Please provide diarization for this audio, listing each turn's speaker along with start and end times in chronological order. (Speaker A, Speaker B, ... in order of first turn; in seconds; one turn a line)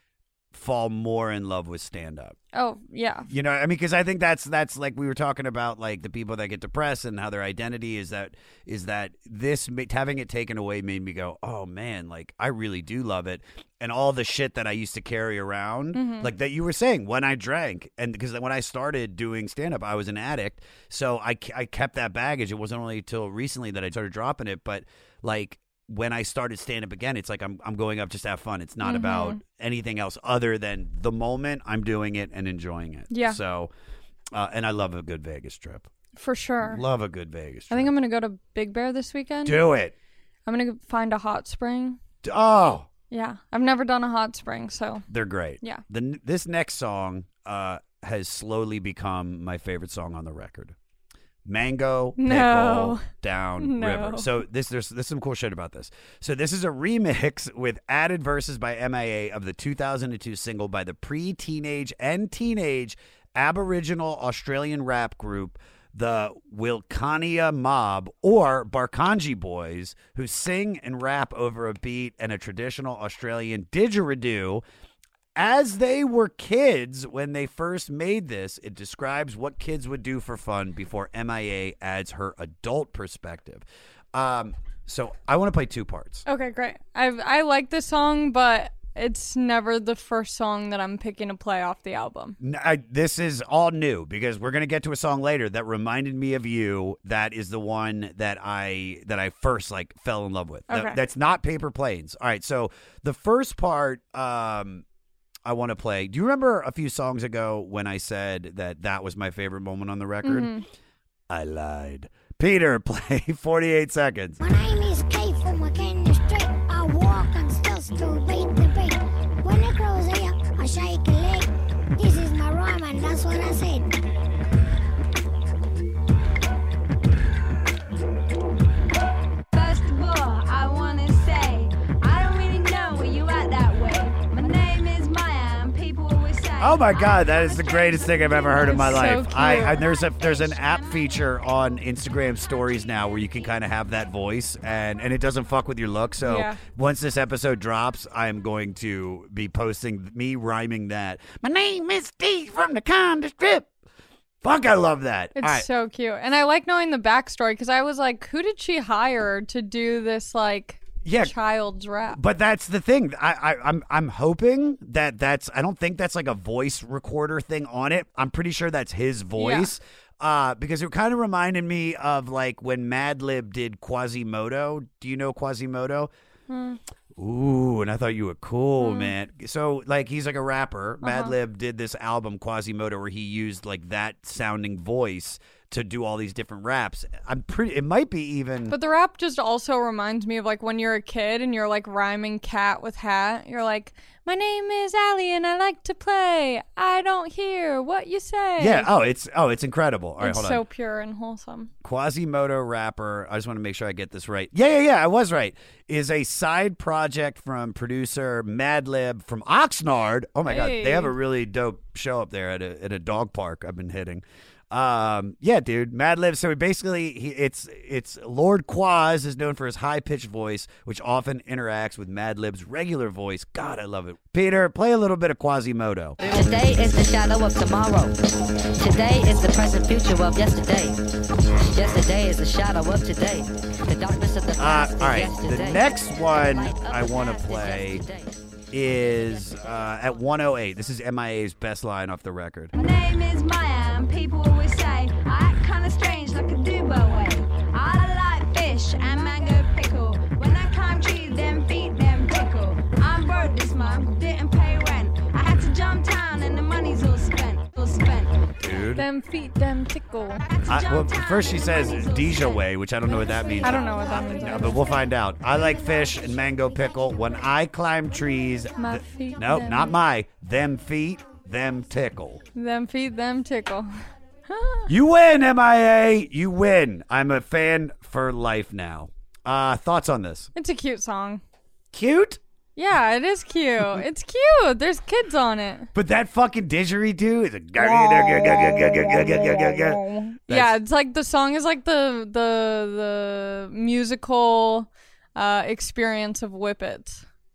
Speaker A: 0.5-2.4
Speaker B: 2.5-3.3
Speaker A: 3.3-33.7
Speaker B: 15.9-16.3
Speaker B: 28.8-29.4
Speaker B: 33.1-33.4
Speaker A: 34.3-35.9
Speaker B: 36.2-36.8
Speaker A: 36.6-37.9
Speaker B: 37.7-39.6
Speaker A: 39.4-39.9
Speaker B: 40.5-42.0
Speaker A: 42.2-42.9
Speaker B: 43.1-45.0
Speaker A: 45.1-50.7
Speaker A: 51.4-74.6
Speaker B: 52.2-53.1
Speaker B: 53.6-54.3
Speaker A: 75.3-86.2
Speaker B: 86.2-92.4
Speaker A: 92.4-104.8
Speaker B: 100.7-101.0
Speaker A: 105.5-110.5
Speaker B: 110.2-110.6
Speaker A: 111.3-114.4
Speaker C: 114.4-123.9
Speaker D: 129.5-139.2
Speaker A: 136.6-153.7
Speaker B: 138.6-139.8
Speaker D: 139.8-141.0
Speaker B: 146.2-146.6
Speaker A: 154.4-155.7
Speaker B: 155.3-162.2
Speaker A: 161.0-161.3
Speaker A: 162.1-176.1
Speaker B: 169.4-169.7
Speaker B: 176.5-176.8
Speaker A: 177.2-188.7
Speaker B: 178.8-179.1
Speaker B: 181.0-181.3
Speaker B: 188.7-198.9
Speaker A: 198.6-200.6
Speaker B: 200.2-201.7
Speaker A: 201.8-226.2
Speaker B: 210.4-211.1
Speaker E: 226.2-228.1
Speaker E: 228.8-230.9
Speaker E: 231.7-238.3
Speaker A: 234.6-238.0
Speaker A: 238.7-242.7
Speaker D: 242.7-258.5
Speaker A: 258.6-259.1
Speaker B: 258.9-260.4
Speaker D: 260.4-265.1
Speaker A: 260.7-272.4
Speaker B: 263.6-264.9
Speaker B: 268.8-270.0
Speaker B: 272.6-273.9
Speaker B: 274.5-274.9
Speaker A: 274.9-280.5
Speaker B: 280.5-281.4
Speaker A: 281.9-282.4
Speaker B: 282.8-285.9
Speaker A: 285.9-290.7
Speaker B: 287.8-297.2